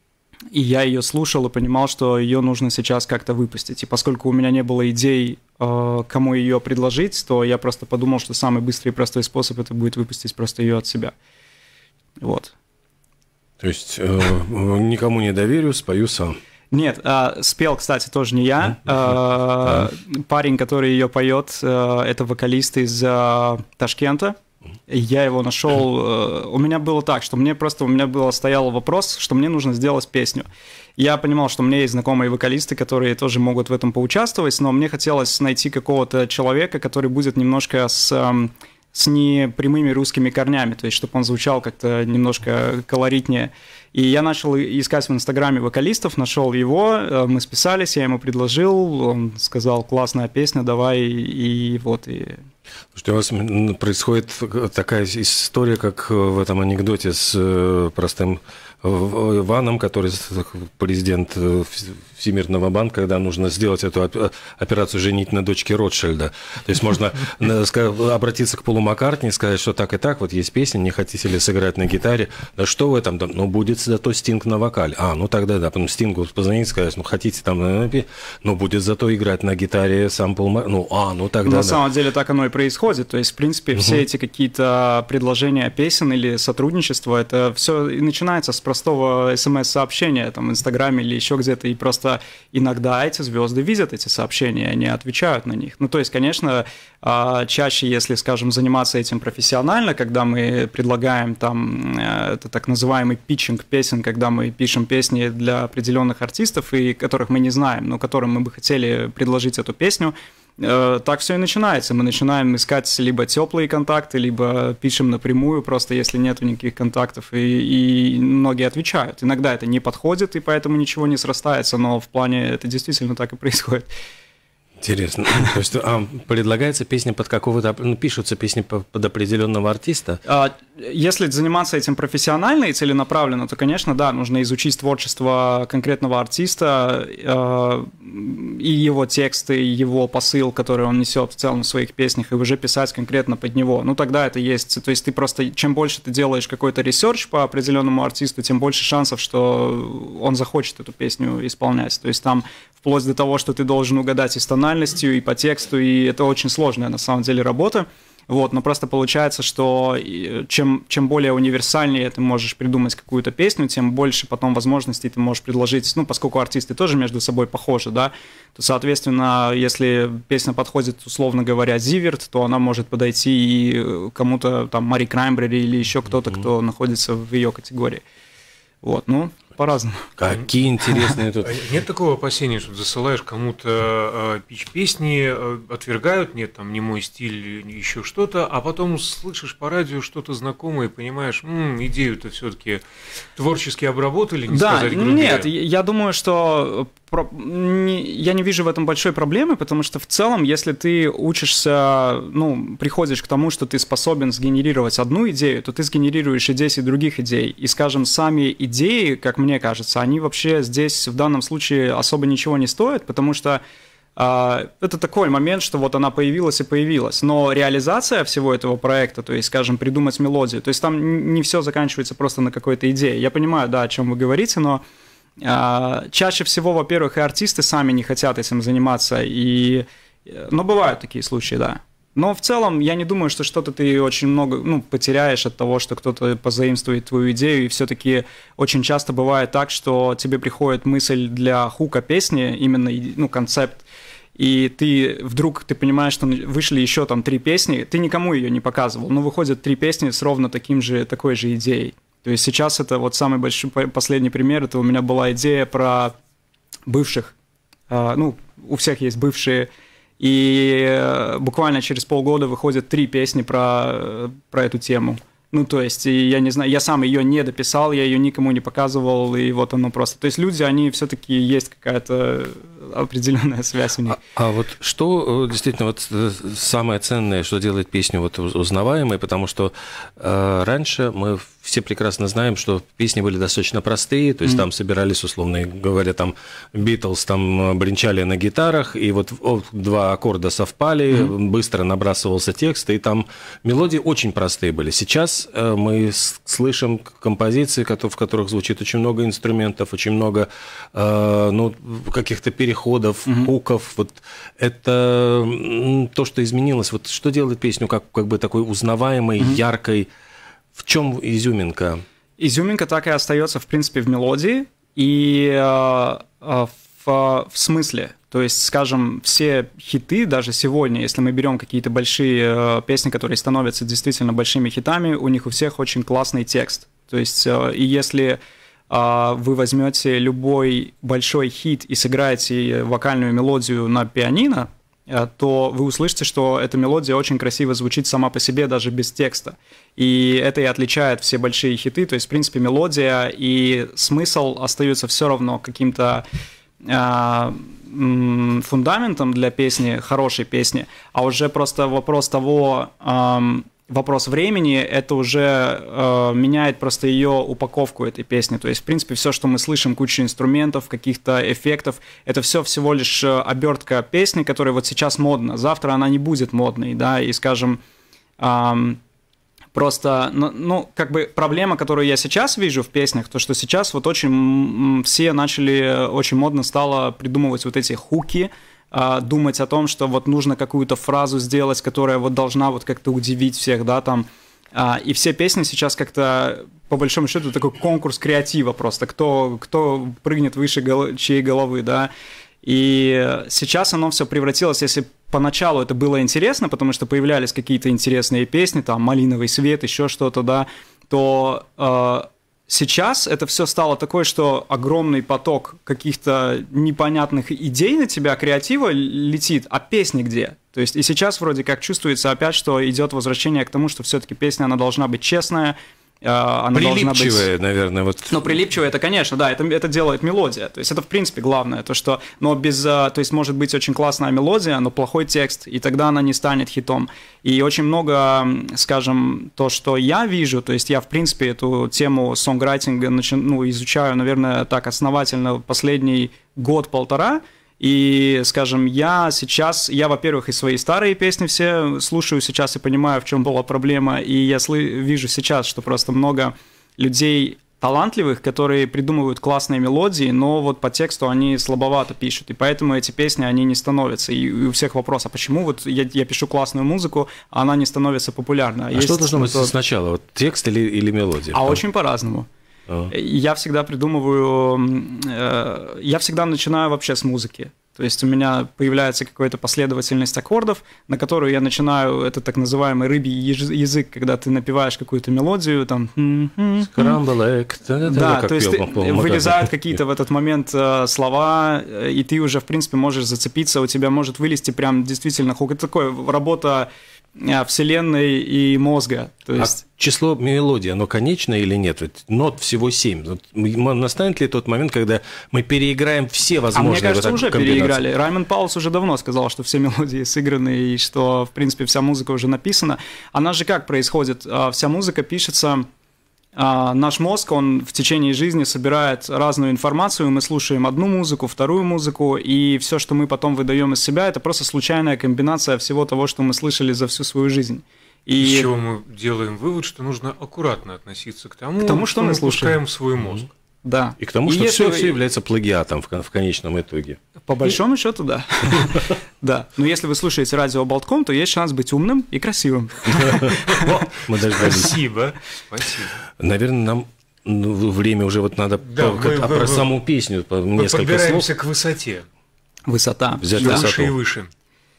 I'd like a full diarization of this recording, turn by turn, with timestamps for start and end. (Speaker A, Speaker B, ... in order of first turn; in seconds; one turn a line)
Speaker A: 0.5-11.2
Speaker A: 12.2-12.5
Speaker B: 13.6-16.4
Speaker A: 16.7-24.4
Speaker A: 24.9-52.4
Speaker B: 53.0-81.8
Speaker A: 81.4-123.9
Speaker B: 124.8-130.2
Speaker A: 130.2-178.0
Speaker A: 178.8-180.1
Speaker B: 180.2-181.5
Speaker C: 181.4-192.8
Speaker C: 193.4-195.5
Speaker A: 194.5-213.6
Speaker A: 214.2-224.8
Speaker A: 225.4-256.1
Speaker A: 256.9-257.3
Speaker A: 257.9-259.7
Speaker A: 260.2-274.2
Speaker B: 274.1-310.1
Speaker A: 303.3-303.5
Speaker B: 310.8-312.0
Speaker A: 312.4-328.4
Speaker A: 328.9-346.2
Speaker A: 346.9-367.8
Speaker A: 368.4-369.0
Speaker A: 369.7-392.1
Speaker A: 392.6-417.5
Speaker B: 416.7-418.4
Speaker A: 418.3-459.7
Speaker B: 458.9-461.8
Speaker A: 461.5-462.5
Speaker A: 463.1-477.2
Speaker B: 476.9-479.7
Speaker A: 478.1-489.8
Speaker B: 489.6-498.0
Speaker A: 496.7-505.9
Speaker A: 506.6-518.7
Speaker C: 518.4-523.5
Speaker A: 521.8-522.8
Speaker A: 523.8-525.2
Speaker B: 524.2-527.2
Speaker A: 527.5-534.1
Speaker B: 533.4-535.0
Speaker C: 534.6-536.2
Speaker B: 536.4-541.5
Speaker C: 538.8-539.9
Speaker C: 540.8-542.3
Speaker A: 542.9-543.9
Speaker B: 543.4-544.1
Speaker C: 543.6-544.5